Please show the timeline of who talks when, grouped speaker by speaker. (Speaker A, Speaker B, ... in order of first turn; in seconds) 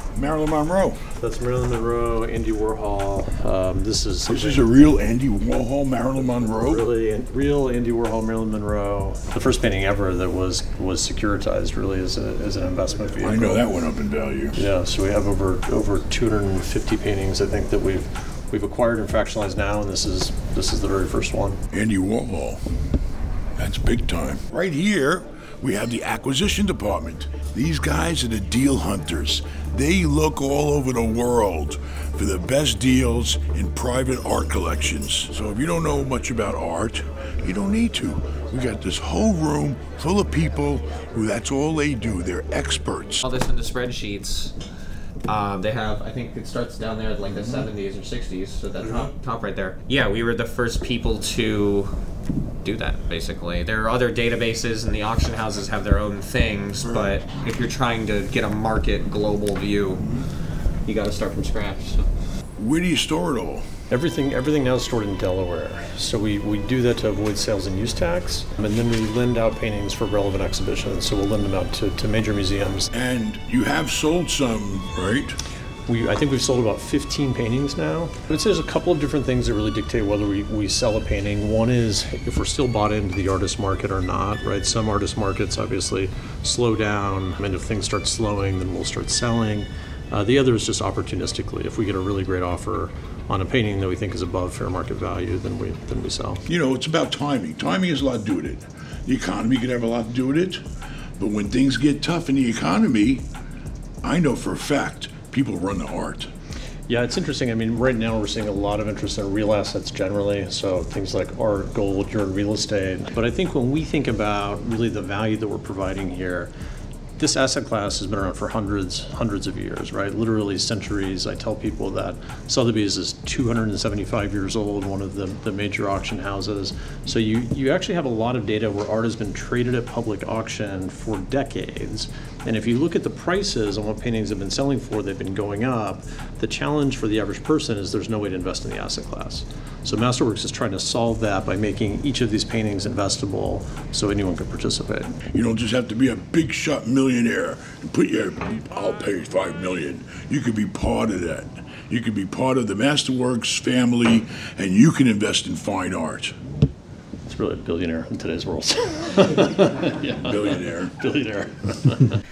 Speaker A: 0.1-1.0, 4.3-6.8, 13.2-14.6, 21.7-22.6, 23.6-43.2, 62.6-63.6, 72.9-75.4, 96.5-100.6, 101.2-103.2, 104.0-106.3, 145.3-156.3, 160.2-160.9
Speaker B: 1.1-4.7, 6.3-13.7, 14.5-21.6, 63.9-72.9, 75.9-96.4, 106.9-116.5, 117.2-145.1, 157.3-162.2
Speaker C: 43.2-44.5, 45.3-51.9, 52.6-60.0, 60.9-62.0